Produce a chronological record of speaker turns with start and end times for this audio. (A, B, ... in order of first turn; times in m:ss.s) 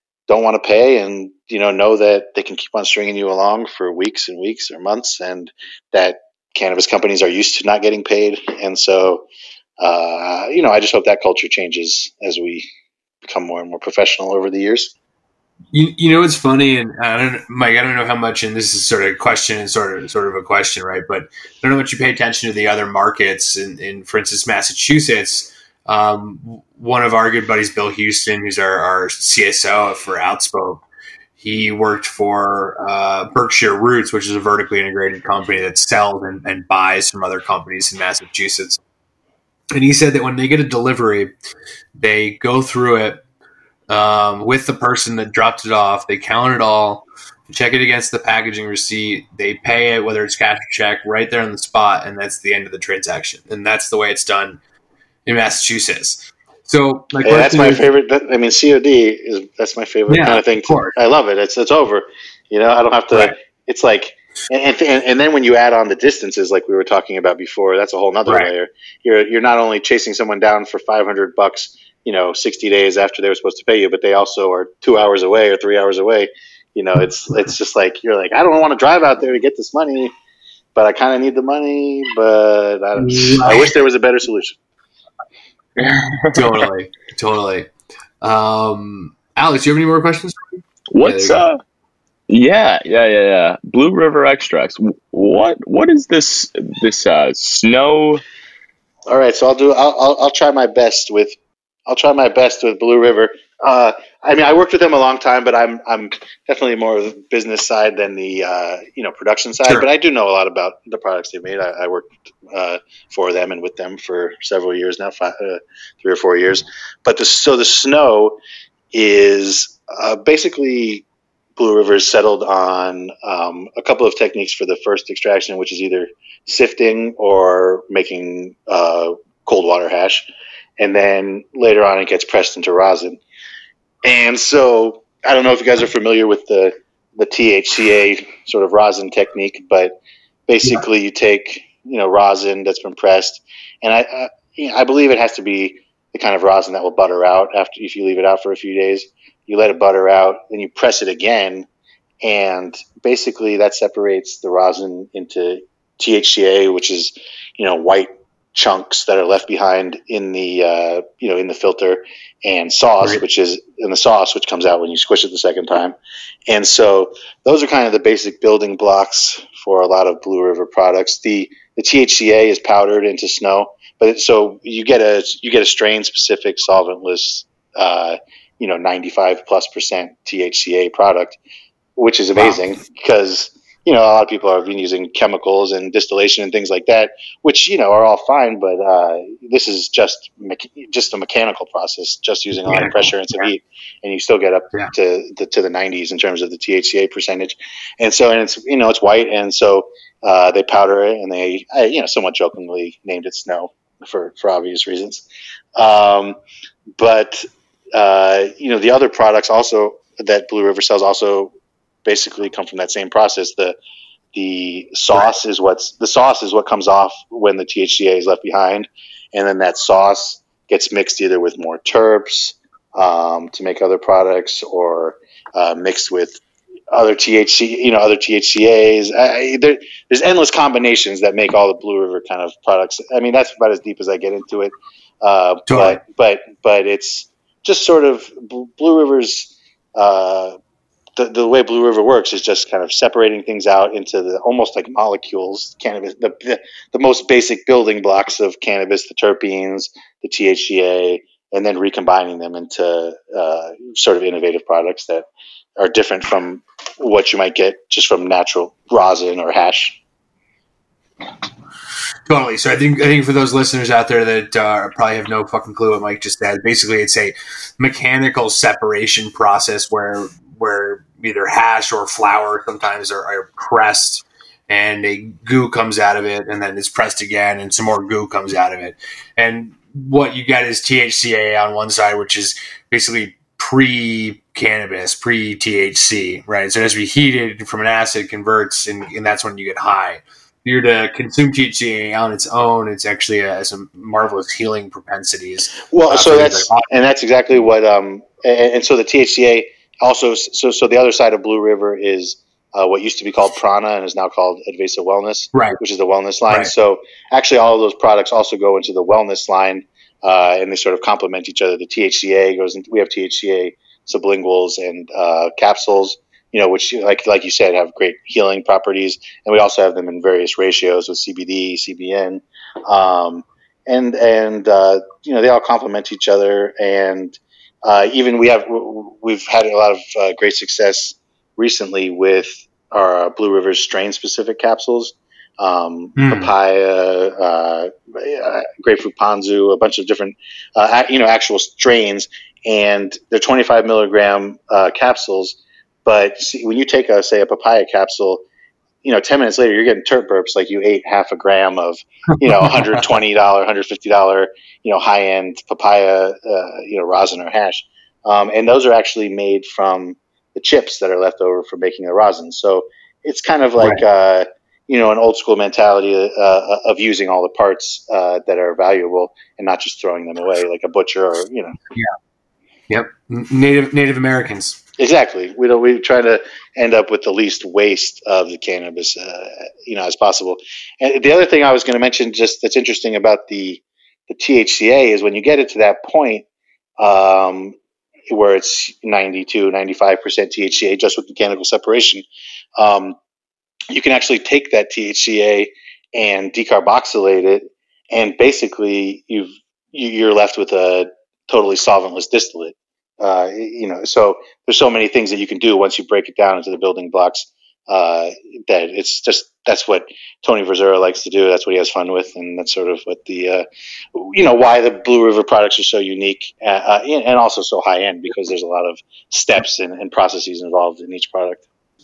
0:00.3-0:09.2 A
0:09.8-0:12.7 A
0:13.2-0:14.9 A
0:15.7-0:30.8 B
0:31.4-0:38.8 B
0:39.7-0:41.3 B
0:42.0-0:43.2 B
0:43.9-0:54.6 B
0:55.3-0:57.9 B
0:57.2-1:20.1 A
1:00.1-1:00.9 B
1:20.8-1:24.6 A
1:23.0-1:23.7 B
1:25.8-1:26.6 C
1:26.3-1:27.7 B
1:28.2-1:31.4 B
1:30.9-1:31.6 C
1:32.3-1:38.2 C
1:39.1-1:41.4 A
1:41.9-1:58.4 A
1:58.9-2:01.0 A
2:01.6-2:10.2 A
2:10.8-2:13.2 A
2:14.0-2:20.0 A
2:20.5-2:31.7 A
2:32.2-2:46.0 A
2:46.5-3:01.4 A
3:02.0-3:25.2 A
3:12.7-3:13.1 B
3:25.8-3:26.4 A
3:27.0-3:31.5 A
3:32.0-3:33.8 A
3:34.3-3:46.4 A
3:46.9-4:00.6 A
3:55.7-3:56.0 B
4:01.2-4:20.0 A
4:22.3-4:56.9 B
4:55.9-5:48.4 A
5:05.5-5:05.8 B
5:36.2-5:36.5 B
5:49.0-6:11.8 A
6:12.9-6:14.8 B
6:15.0-6:26.4 A
6:27.0-6:27.8 A
6:28.3-6:32.2 A
6:32.8-6:33.2 A
6:33.9-7:01.6 A